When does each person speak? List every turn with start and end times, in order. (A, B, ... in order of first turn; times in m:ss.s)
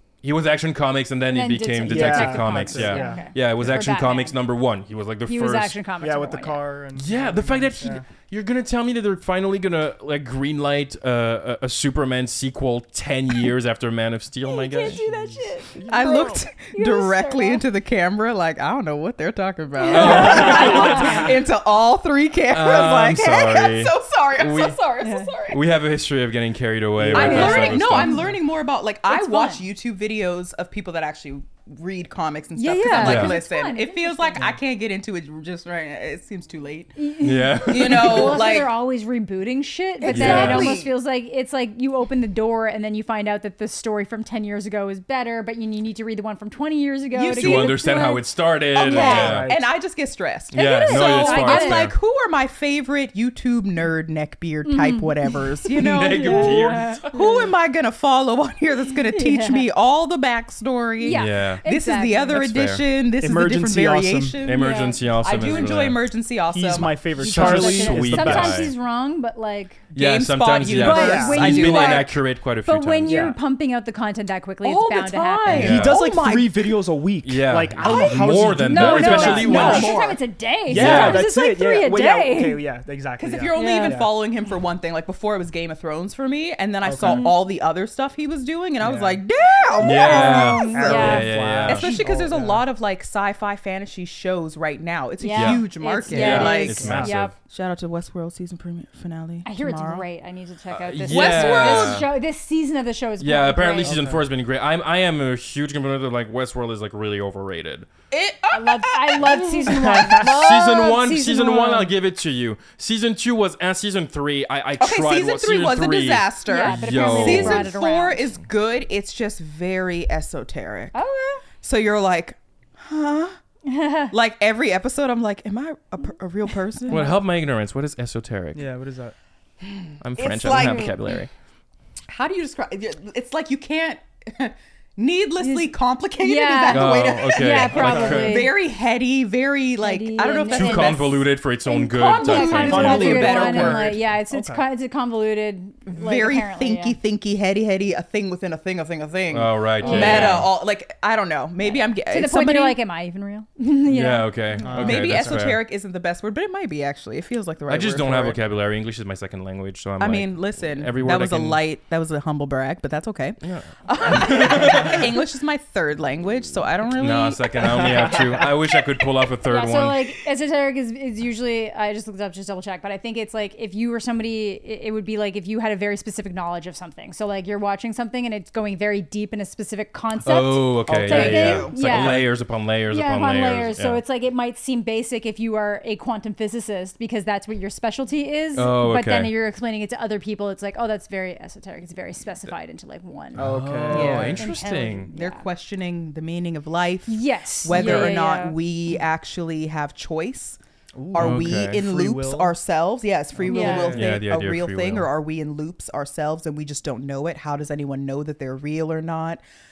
0:00.2-0:05.8 A
0:01.3-0:04.4 B
0:01.8-0:03.3 C
0:05.3-0:06.6 B
0:06.0-0:08.0 C
0:07.0-0:15.0 A
0:14.4-0:17.6 B
0:15.8-0:16.2 C
0:15.8-0:25.6 D
0:19.8-0:21.3 B
0:19.9-0:21.4 A
0:22.5-0:24.8 A
0:25.0-0:25.3 B
0:25.5-0:28.3 A
0:27.0-0:27.6 C
0:27.1-0:37.0 D
0:27.2-0:28.3 B
0:29.1-0:29.6 B
0:32.6-0:34.4 B
0:33.0-0:33.4 A
0:37.0-0:48.2 B
0:37.2-0:38.5 A
0:37.6-0:38.8 D
0:40.0-0:40.9 D
0:40.1-0:40.8 A
0:47.1-0:47.8 D
0:47.3-0:49.5 A
0:48.8-1:07.0 D
0:48.8-0:49.4 B
0:49.0-0:49.6 C
0:50.5-0:52.0 A
0:50.5-0:51.9 B
0:54.7-0:57.4 B
0:55.8-0:57.1 A
0:59.1-0:59.7 B
1:01.0-1:02.4 B
1:01.1-1:01.6 A
1:02.3-1:02.8 A
1:03.2-1:04.4 C
1:04.4-1:06.1 A
1:04.5-1:05.7 B
1:06.5-1:08.7 C
1:07.2-1:08.7 A
1:07.2-1:09.8 B
1:09.9-1:12.1 D
1:09.9-1:13.4 A
1:10.7-1:15.6 B
1:10.9-1:11.6 C
1:13.1-1:13.4 C
1:14.6-1:16.8 D
1:15.5-1:16.0 A
1:15.5-1:20.0 C
1:17.2-1:20.0 A
1:17.8-1:22.6 B
1:19.2-1:20.2 D
1:20.7-1:24.1 C
1:20.7-1:21.3 A
1:23.2-1:40.0 D
1:23.5-1:24.0 B
1:26.8-1:27.3 C
1:27.0-1:27.4 B
1:28.8-1:29.2 C
1:29.8-1:32.0 A
1:29.8-1:31.5 B
1:30.7-1:32.6 C
1:35.2-1:37.3 B
1:35.3-1:37.3 A
1:36.2-1:37.1 C
1:39.4-1:44.0 B
1:40.7-1:42.1 A
1:41.1-1:42.1 D
1:43.2-1:47.9 A
1:43.8-1:44.2 C
1:48.1-1:50.0 D
1:48.5-1:51.9 B
1:49.7-1:50.2 C
1:50.2-1:57.7 A
1:54.8-2:01.0 D
1:56.5-1:58.2 B
2:00.9-2:01.4 B
2:01.6-2:03.4 D
2:03.7-2:04.1 B
2:04.1-2:07.1 D
2:06.9-2:08.7 A
2:06.9-2:07.2 B
2:08.5-2:09.2 C
2:09.6-2:11.1 D
2:10.0-2:11.3 A
2:10.5-2:10.9 B
2:12.1-2:24.0 D
2:15.4-2:18.6 B
2:16.7-2:18.5 A
2:17.8-2:18.2 C
2:19.8-2:21.1 B
2:20.5-2:23.8 A
2:22.0-2:27.0 B
2:22.6-2:24.6 C
2:25.9-2:32.8 D
2:29.3-2:30.5 A
2:29.8-2:30.5 B
2:31.6-2:34.7 B
2:33.9-2:35.6 A
2:34.6-2:35.4 C
2:34.7-2:38.4 D
2:37.7-2:41.6 A
2:40.0-2:48.8 D
2:43.4-2:45.2 A
2:46.9-2:50.2 A
2:47.8-2:48.4 C
2:49.5-3:02.4 B
3:00.2-3:04.0 A
3:00.9-3:01.2 C
3:01.0-3:02.2 D
3:02.9-3:13.4 B
3:08.5-3:09.3 A
3:13.4-3:14.4 C
3:13.4-3:15.1 A
3:13.9-3:14.4 D
3:14.4-3:15.4 B
3:15.1-3:20.6 D
3:17.1-3:18.6 B
3:20.9-3:22.6 C
3:21.1-3:29.4 D
3:21.2-3:21.8 A
3:23.4-3:24.1 C
3:23.5-3:24.0 B
3:23.9-3:25.1 A